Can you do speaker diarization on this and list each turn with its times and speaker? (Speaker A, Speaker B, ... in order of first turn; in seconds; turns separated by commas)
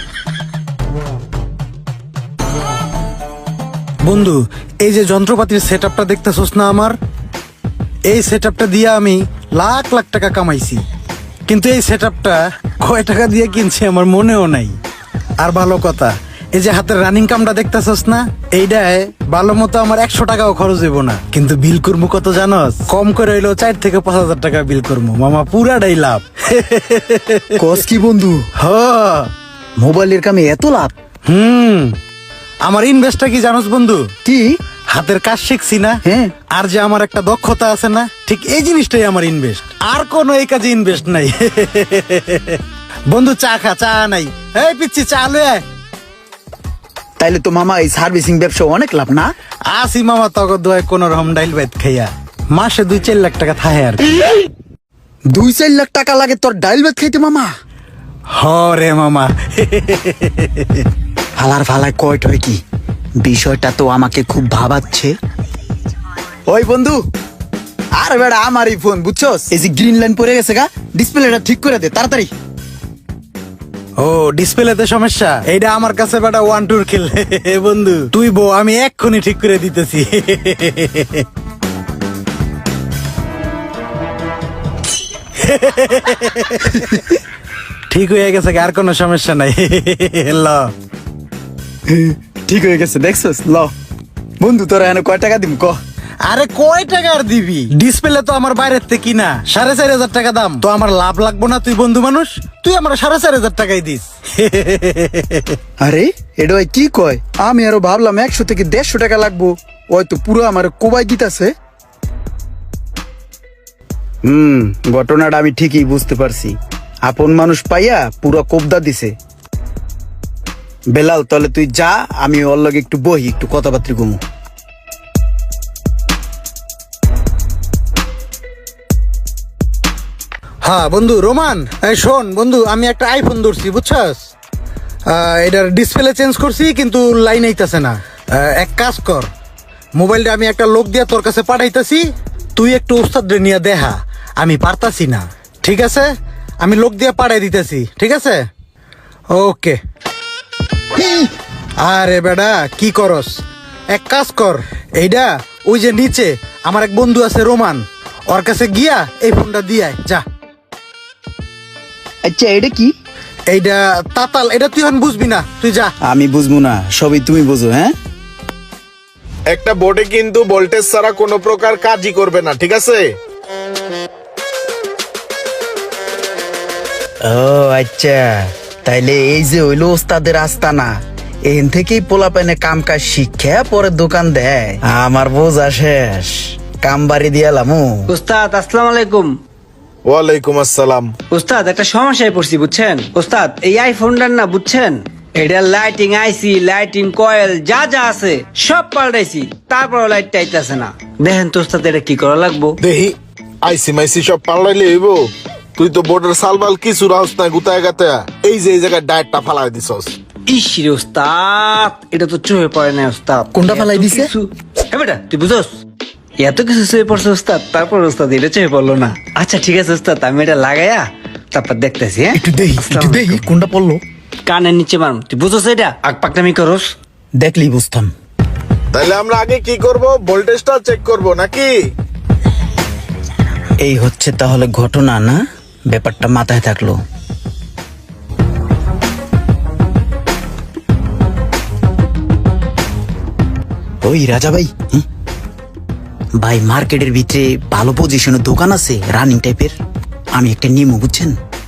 Speaker A: 4.0-7.0, Speaker A: 8.1-10.8, Speaker A: 11.5-14.8, Speaker A: 15.4-27.5, Speaker B: 27.6-28.4, Speaker A: 28.6-29.3, Speaker B: 29.8-30.9, Speaker A: 31.3-31.9, Speaker A: 32.6-34.0, Speaker B: 34.2-34.6, Speaker A: 34.9-36.0, Speaker B: 36.1-36.3, Speaker A: 36.5-45.6, Speaker B: 47.2-49.3, Speaker A: 49.7-54.1, Speaker B: 55.3-57.5, Speaker A: 58.3-60.8, Speaker B: 61.4-62.6, Speaker B: 63.2-65.1, Speaker B: 66.5-67.0, Speaker B: 68.0-72.3, Speaker A: 74.0-81.2, Speaker A: 85.4-86.9, Speaker A: 87.9-90.7, Speaker B: 91.9-93.7, Speaker B: 94.4-95.8, Speaker A: 96.3-105.6, Speaker B: 105.8-111.5, Speaker B: 114.3-119.2, Speaker B: 120.9-124.2, Speaker A: 130.6-134.3, Speaker A: 135.1-139.3, Speaker A: 140.0-148.5, Speaker A: 149.3-149.8, Speaker A: 150.9-160.2, Speaker B: 162.2-162.9, Speaker A: 163.5-165.9, Speaker B: 166.1-167.9, Speaker C: 169.5-173.1, Speaker B: 177.3-180.9, Speaker B: 181.5-188.1, Speaker D: 188.1-189.4, Speaker C: 190.1-191.2, Speaker D: 191.3-202.8, Speaker C: 202.8-210.2, Speaker D: 210.5-215.8, Speaker B: 213.5-214.3, Speaker D: 216.4-223.4, Speaker B: 222.3-224.0, Speaker D: 224.5-226.9, Speaker B: 227.4-228.1, Speaker C: 228.9-231.7, Speaker B: 233.8-237.0, Speaker B: 244.0-245.1, Speaker B: 246.4-249.8, Speaker B: 250.3-251.4